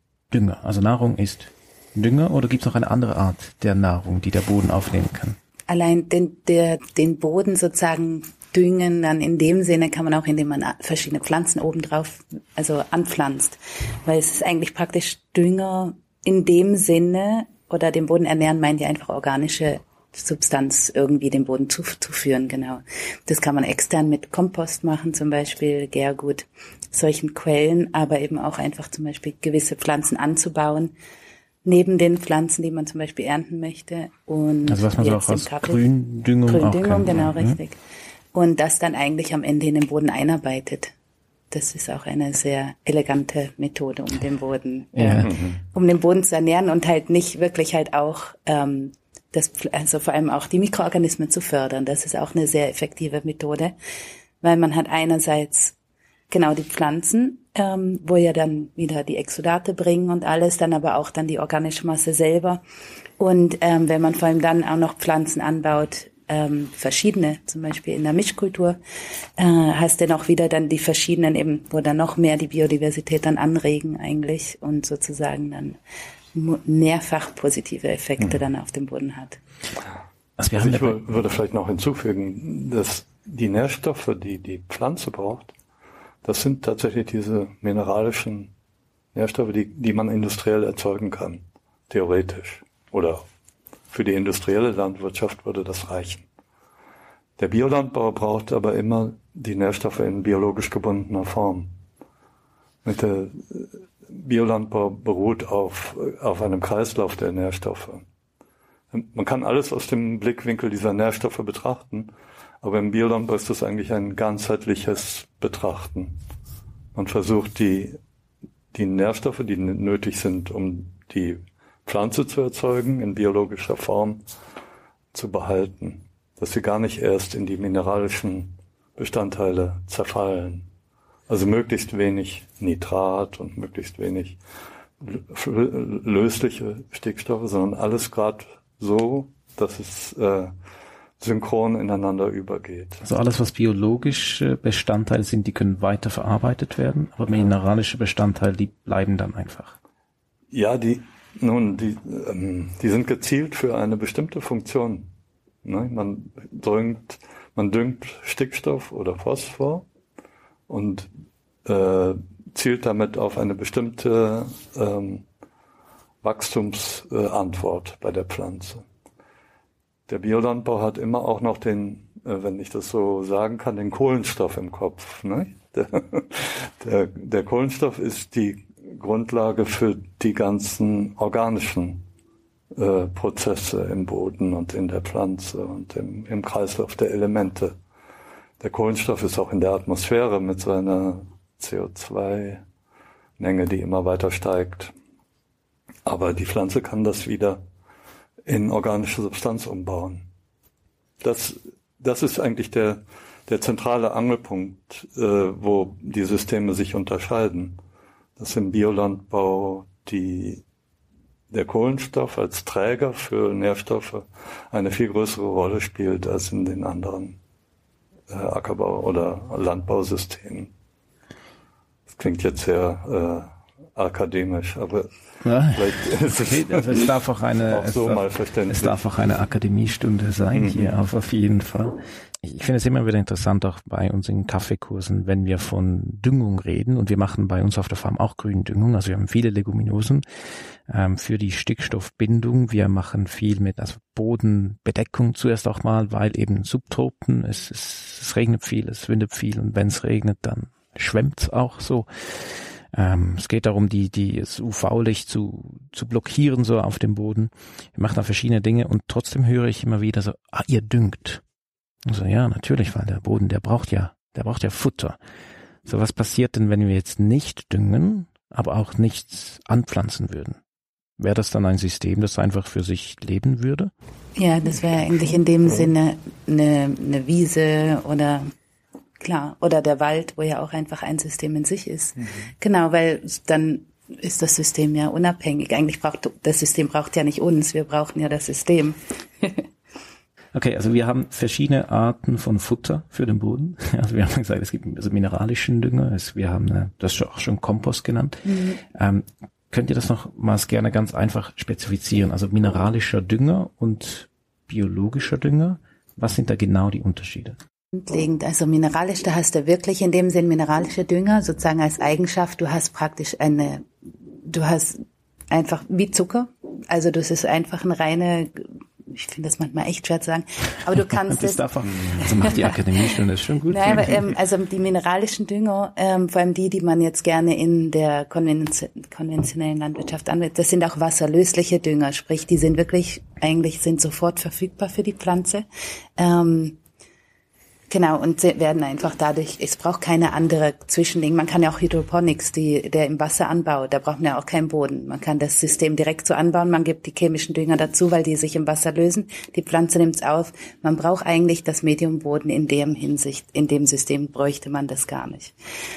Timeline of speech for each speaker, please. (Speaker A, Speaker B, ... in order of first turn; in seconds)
Speaker A: 0.3-5.4, 34.7-37.6, 45.0-45.3, 80.4-81.1, 143.0-149.8, 225.4-240.2, 240.9-261.4, 262.1-265.2, 265.9-270.6, 271.2-273.9, 290.5-307.6, 321.2-324.4
Speaker B: 5.7-30.9, 31.6-35.8, 36.5-37.8, 38.3-40.9, 41.5-53.8, 54.4-55.8, 56.3-62.6, 63.2-68.8, 69.4-75.8, 76.3-79.4, 274.4-278.5, 279.2-289.7, 298.5-298.8, 307.9-335.7, 336.2-336.8, 337.9-355.6
Speaker C: 45.2-45.6, 80.5-85.5, 86.2-88.5, 89.1-93.2, 93.9-96.3, 97.4-101.7, 102.8-108.0, 108.9-112.1, 112.6-116.2, 117.0-118.0, 118.7-124.2, 125.1-130.7, 131.3-134.4, 135.0-140.5, 141.2-143.0, 150.5-155.1, 155.6-159.9, 160.7-161.1, 161.7-165.2, 166.2-168.8, 170.1-182.0, 182.7-187.8, 188.6-192.6, 193.4-194.9, 196.1-197.6, 198.5-200.3, 201.2-207.8, 208.4-210.6, 211.5-217.4, 218.3-220.7, 222.1-225.2, 225.7-227.1, 227.7-229.1, 230.5-231.0